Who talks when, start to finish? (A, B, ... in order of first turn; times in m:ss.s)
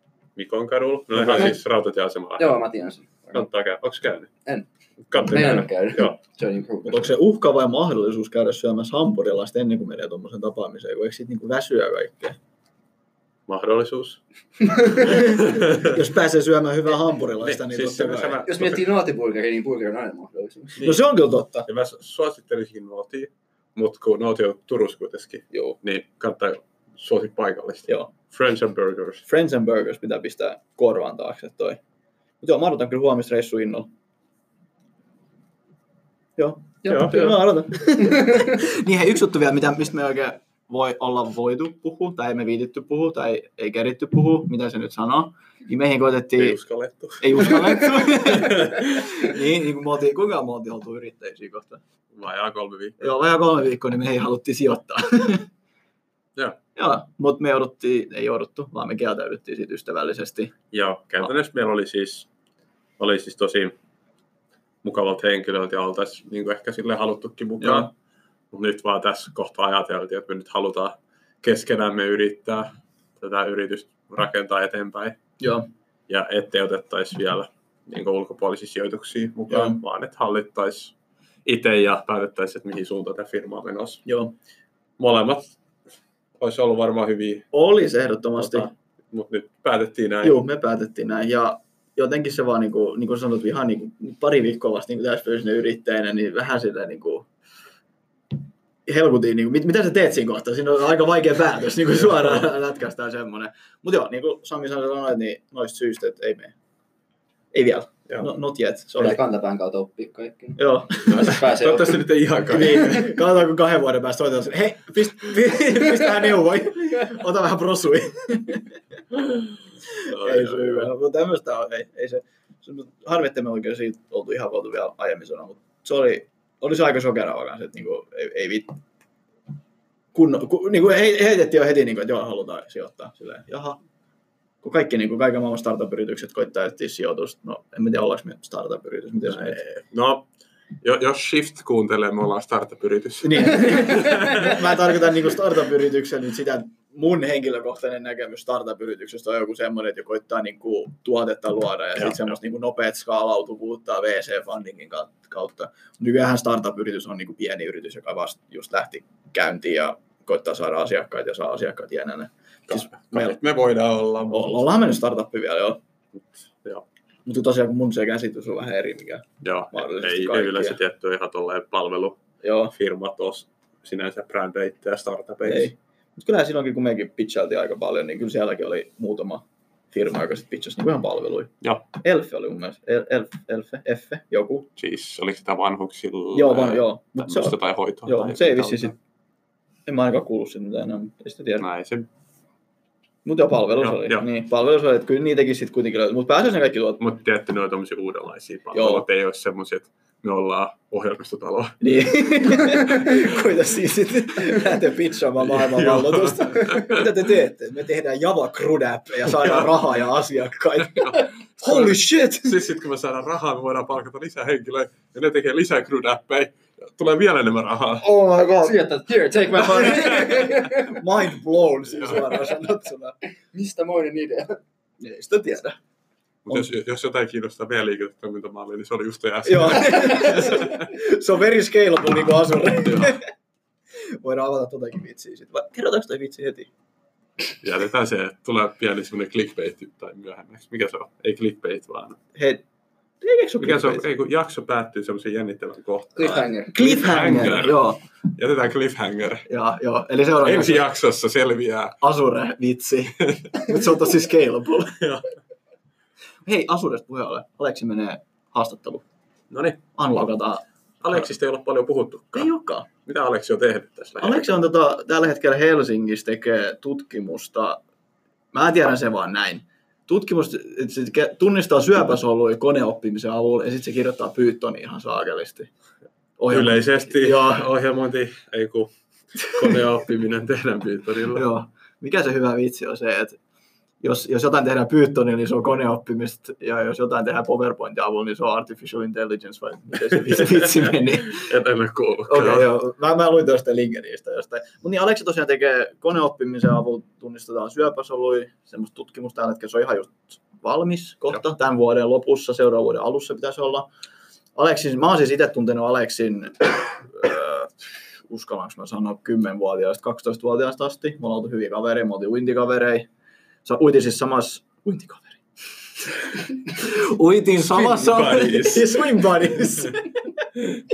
0:00.4-0:02.6 A
0:01.1-0:01.5 B
0:02.4-0:03.4 C
0:03.3-0:04.3 A
0:04.4-0:07.1 C
0:05.1-0:06.2 A
0:06.8-0:12.4 B
0:13.5-0:14.2 A
0:14.9-0:15.9 A
0:15.0-0:18.4 B
0:17.4-0:18.9 A
0:18.4-0:20.8 C
0:20.8-0:21.7 B
0:21.6-0:29.2 A
0:29.2-0:31.8 B
0:32.4-0:33.9 B
0:36.4-0:46.6 B
0:36.8-0:37.3 A
0:36.9-0:37.3 C
0:38.0-0:38.6 C
0:46.4-0:49.3 A
0:47.2-0:51.8 B
0:52.1-0:53.0 A
0:53.0-0:55.4 B
0:56.8-1:00.5 B
1:00.7-1:02.3 A
1:03.0-1:03.7 A
1:04.8-1:07.9 A
1:07.6-1:07.9 B
1:08.5-1:15.2 A
1:15.4-1:15.7 B
1:16.1-1:20.9 A
1:19.5-1:19.8 B
1:21.4-1:24.0 A
1:24.0-1:24.3 B
1:25.0-1:25.5 A
1:26.4-1:27.5 A
1:27.5-1:28.7 B
1:28.4-1:30.4 A
1:30.2-1:37.3 B
1:38.8-1:46.5 B
1:47.5-1:49.2 B
1:49.0-1:52.0 C
1:50.6-1:51.5 B
1:51.1-1:53.2 A
1:52.5-1:58.7 B
1:59.9-2:08.8 B
2:00.1-2:00.9 A
2:10.1-2:13.8 B
2:14.6-2:19.6 B
2:19.3-2:20.2 A
2:20.8-2:24.7 A
2:23.2-2:43.4 B
2:42.7-2:44.6 A
2:44.3-2:45.8 B
2:46.5-2:46.8 A
2:47.2-2:50.8 B
2:49.4-2:52.2 A
2:52.4-2:52.7 B
2:52.7-2:55.7 A
2:55.4-3:04.7 B
3:04.8-3:08.9 A
3:06.3-3:08.9 B
3:09.8-3:11.6 B
3:11.6-3:12.1 A
3:13.2-3:17.0 B
3:13.8-3:14.2 A
3:17.0-3:21.8 A
3:18.7-3:19.0 B
3:21.8-3:32.6 B
3:25.4-3:27.1 A
3:29.3-3:29.7 A
3:30.9-3:38.1 A
3:38.0-3:38.9 B
3:38.6-3:41.0 C
3:39.5-3:43.2 B
3:39.9-3:40.3 A
3:42.0-3:42.2 A
3:43.5-3:44.6 C
3:45.0-3:45.8 B
3:46.4-3:50.9 A
3:49.4-3:53.2 B
3:52.7-3:53.2 A
3:54.2-3:56.7 B
3:57.6-4:02.2 A
4:02.3-4:02.6 B
4:03.2-4:04.0 B
4:03.6-4:09.5 A
4:06.2-4:06.7 C
4:06.7-4:08.0 B
4:09.5-4:10.8 B
4:10.4-4:12.0 A
4:12.0-4:15.0 B
4:16.4-4:19.0 B
4:19.5-4:19.8 A
4:20.0-4:21.2 B
4:21.0-4:22.5 A
4:22.3-4:22.9 B
4:23.0-4:24.6 A
4:24.2-4:27.8 B
4:28.5-4:35.7 B
4:36.4-4:37.6 B
4:36.5-4:41.4 A
4:39.4-4:39.7 B
4:41.3-4:43.4 B
4:44.0-4:51.5 B
4:50.3-4:52.7 A
4:52.3-5:03.9 B
5:04.6-5:07.7 B
5:08.2-5:13.1 B
5:13.6-5:15.4 B
5:16.7-5:20.2 B
5:17.7-5:19.2 A